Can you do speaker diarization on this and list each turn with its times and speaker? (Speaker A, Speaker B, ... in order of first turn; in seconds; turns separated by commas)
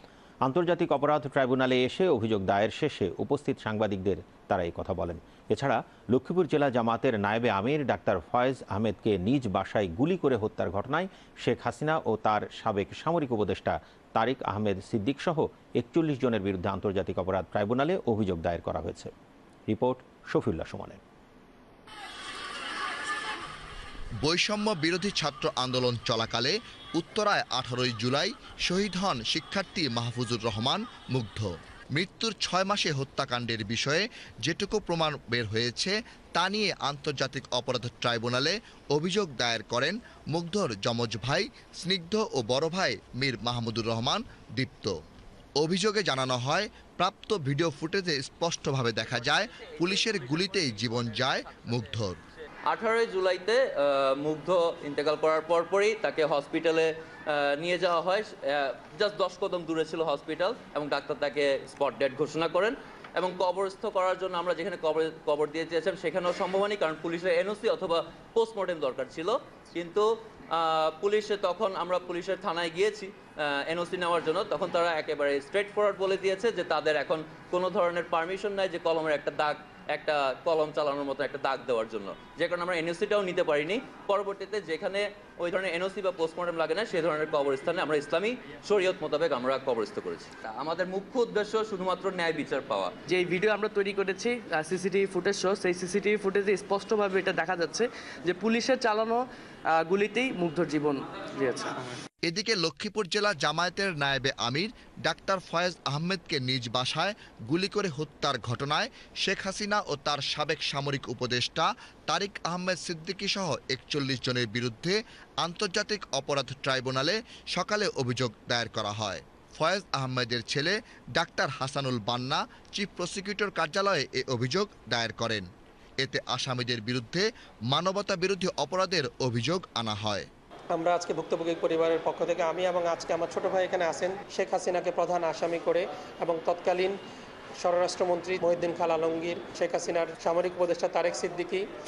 Speaker A: 0.4-19.1, Speaker A: 19.7-21.0, Speaker B: 24.2-44.9, Speaker B: 45.6-52.2, Speaker C: 52.7-92.9, Speaker D: 93.1-102.0, Speaker B: 102.3-125.5, Speaker B: 126.0-130.3, Speaker E: 130.7-137.0, Speaker E: 137.6-141.6